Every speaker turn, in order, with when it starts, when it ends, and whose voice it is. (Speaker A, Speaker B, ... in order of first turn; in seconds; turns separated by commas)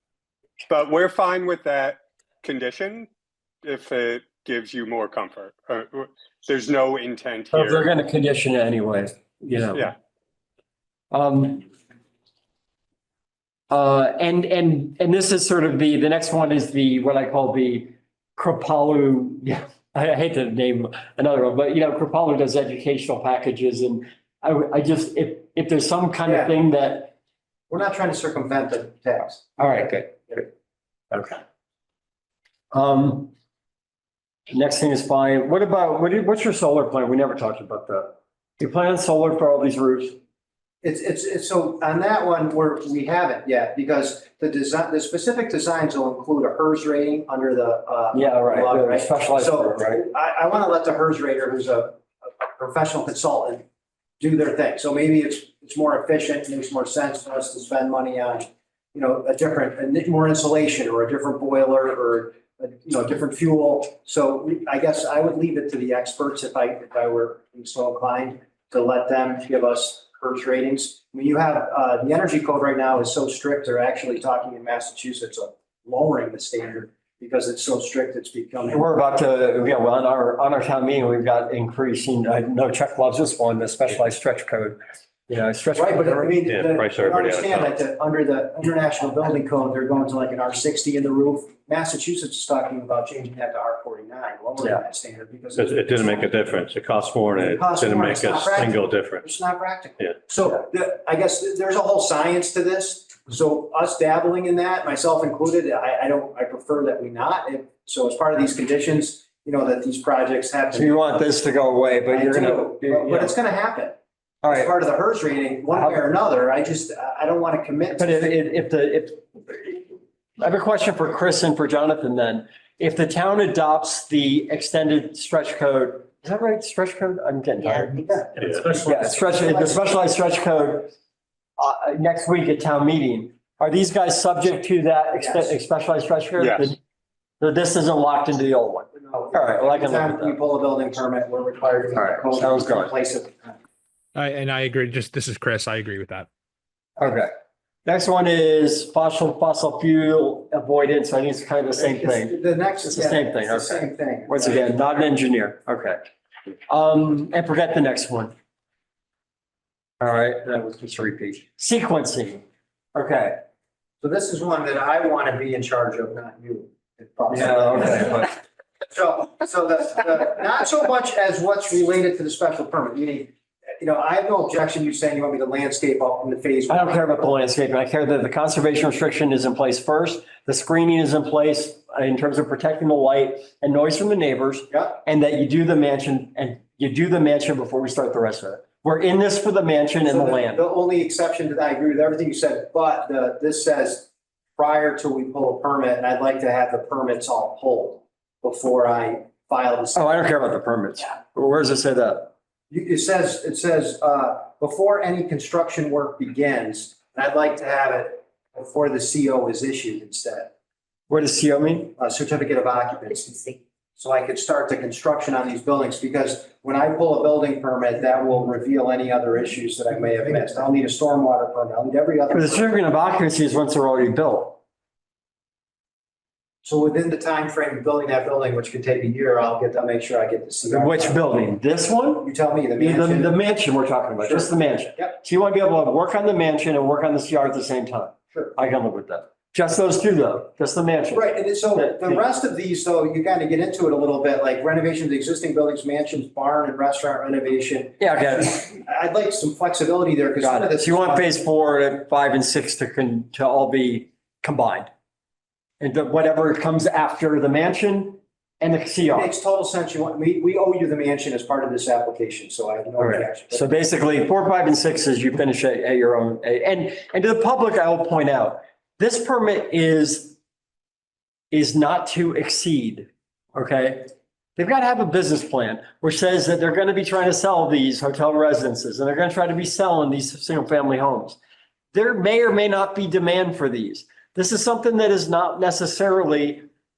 Speaker A: 0.7-3.1, Speaker A: 3.6-7.9, Speaker B: 7.5-9.9, Speaker B: 11.1-11.7, Speaker B: 13.7-27.1, Speaker C: 26.2-26.6, Speaker C: 27.7-29.5, Speaker B: 29.6-30.5, Speaker B: 31.1-31.4, Speaker B: 32.7-33.3, Speaker B: 34.5-40.2, Speaker C: 40.8-53.6, Speaker B: 48.1-50.0, Speaker C: 54.2-78.8, Speaker B: 78.7-86.3, Speaker C: 85.7-96.3, Speaker D: 86.5-87.8, Speaker D: 95.5-99.3, Speaker C: 97.4-111.2, Speaker B: 110.7-113.3, Speaker C: 112.1-114.0, Speaker B: 114.4-114.7, Speaker C: 114.5-118.3, Speaker B: 115.7-116.0, Speaker B: 118.0-119.9, Speaker B: 120.4-128.0, Speaker C: 127.9-129.9, Speaker D: 128.4-128.6, Speaker B: 128.8-130.9, Speaker B: 131.6-136.8, Speaker C: 135.2-135.6, Speaker A: 136.4-136.7, Speaker B: 137.4-140.4, Speaker C: 138.9-143.6, Speaker B: 141.9-142.9, Speaker E: 144.1-146.3, Speaker B: 147.0-147.3, Speaker B: 147.8-156.0, Speaker C: 151.7-155.1, Speaker B: 156.7-158.3, Speaker B: 160.0-162.4, Speaker B: 162.9-163.4, Speaker C: 164.0-168.3, Speaker B: 167.3-168.3, Speaker C: 168.8-177.2, Speaker B: 176.7-190.6, Speaker C: 184.7-185.0, Speaker C: 190.0-200.2, Speaker B: 199.9-202.3, Speaker C: 202.7-210.5, Speaker B: 211.1-211.9, Speaker C: 212.0-222.8, Speaker B: 222.3-224.6, Speaker C: 226.6-231.2, Speaker B: 230.7-242.2, Speaker C: 232.2-233.4, Speaker C: 234.2-235.2, Speaker C: 241.1-251.3, Speaker B: 248.0-248.7, Speaker B: 250.4-254.9, Speaker B: 255.8-259.3, Speaker C: 259.1-263.6, Speaker B: 263.0-270.4, Speaker B: 271.5-281.4, Speaker B: 281.9-286.6